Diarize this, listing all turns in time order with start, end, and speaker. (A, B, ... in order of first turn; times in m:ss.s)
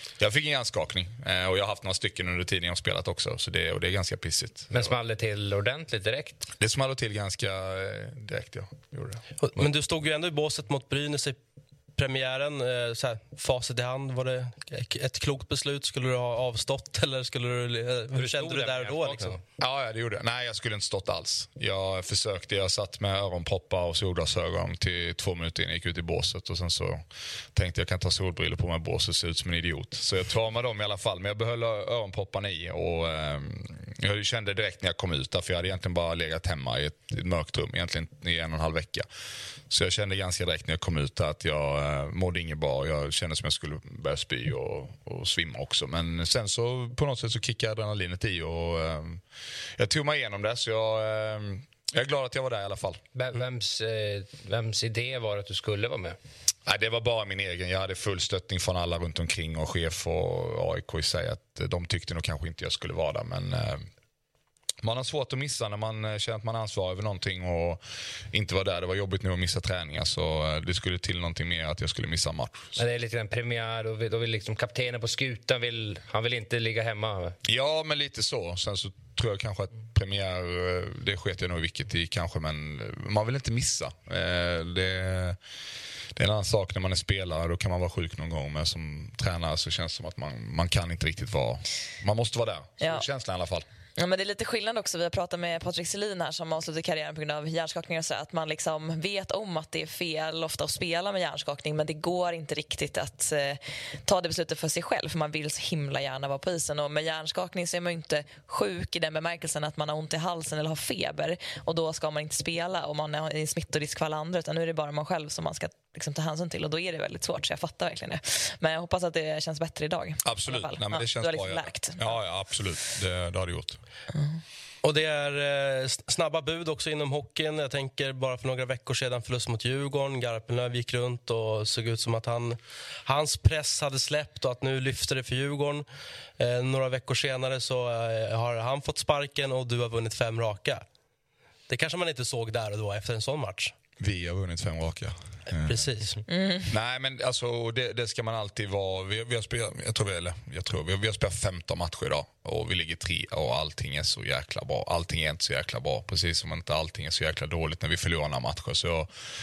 0:00.2-0:04.9 A
0:04.7-0:06.5 B
0:06.6-0:09.6 A
0:09.4-0:11.4 C
0:12.0-0:19.4 C
0:18.2-0:19.4 B
0:19.6-0:27.0 A
0:27.5-0:39.1 A
0:39.7-0:49.2 A
0:49.8-0:53.0 A
0:53.2-0:56.2 B
0:56.7-1:03.9 A
1:04.8-1:12.8 A
1:12.8-1:17.4 B
1:17.4-1:25.4 A
1:26.2-1:33.7 A
1:32.8-1:33.0 D
1:34.0-2:02.2 D
2:00.2-2:03.8 A
2:04.8-2:15.8 C
2:16.4-2:20.8 C
2:21.7-2:23.7 C
2:24.0-2:25.9 A
2:25.5-2:26.2 C
2:26.3-2:26.7 D
2:26.7-2:39.1 A